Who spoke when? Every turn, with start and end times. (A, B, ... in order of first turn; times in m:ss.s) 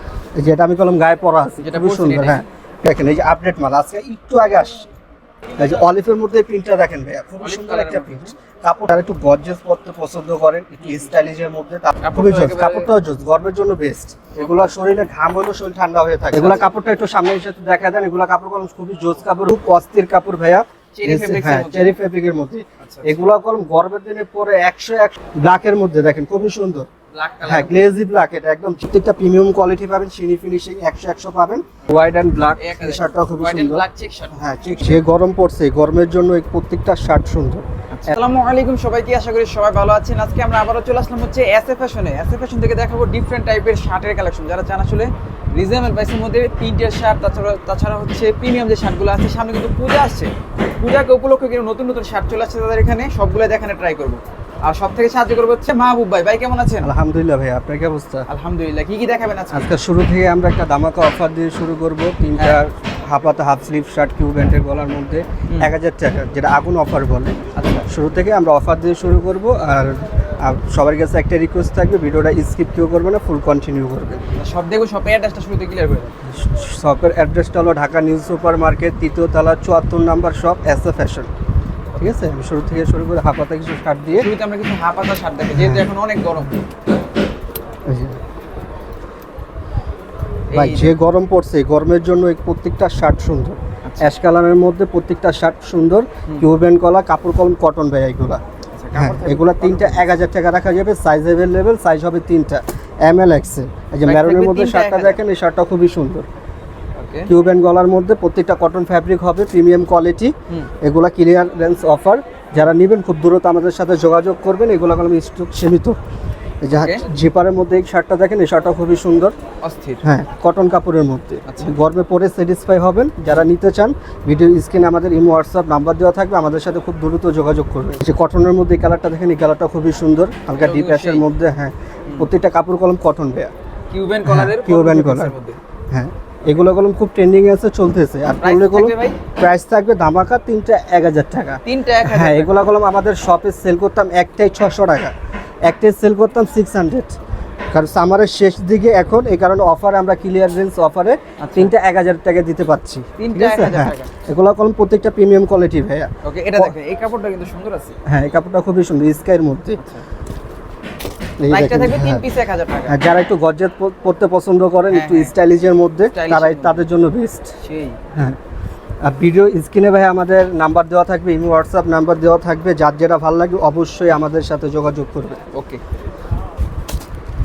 0:00.4-0:04.9 A
0:01.6-0:02.4 B
0:05.6-0:26.9 A
0:07.4-0:08.3 B
0:10.8-0:11.1 B
0:12.0-0:12.9 B
0:14.3-0:14.7 B
0:16.3-0:16.7 B
0:20.9-0:22.0 B
0:22.8-0:23.2 B
0:27.1-0:27.9 B
0:27.4-0:38.1 A
0:32.5-0:35.0 B
0:37.9-0:56.9 B
0:56.8-0:58.2 A
0:58.3-0:59.7 B
0:59.5-1:14.2 A
1:02.3-1:02.6 B
1:07.6-1:07.8 B
1:14.4-1:16.1 B
1:16.2-1:21.3 A
1:22.0-1:24.3 A
1:24.1-1:26.6 B
1:25.5-1:25.8 A
1:27.8-1:28.2 A
1:30.5-1:31.0 B
1:30.5-1:38.4 A
1:33.8-1:34.1 B
1:38.7-1:40.1 B
1:38.9-1:46.2 A
1:44.0-1:45.2 B
1:47.0-1:47.3 B
1:47.3-1:56.0 A
1:56.6-1:59.3 A
1:56.7-1:57.0 B
1:59.6-2:00.0 B
2:00.0-2:13.5 A
2:01.4-2:01.8 B
2:10.6-2:11.2 B
2:13.9-2:15.6 B
2:14.2-2:15.3 A
2:15.9-2:27.2 A
2:18.4-2:19.2 B
2:21.6-2:22.6 B
2:27.7-2:36.7 A
2:31.4-2:31.7 B
2:33.2-2:34.1 B
2:36.2-2:37.9 B
2:38.0-2:39.8 A
2:39.8-2:40.0 B
2:41.4-2:42.2 A
2:41.5-2:43.0 B
2:42.9-2:47.5 A
2:44.9-2:45.3 B
2:46.1-2:46.9 B
2:47.6-2:48.0 B
2:48.1-2:48.4 A
2:49.0-2:55.4 A
2:55.5-2:55.8 B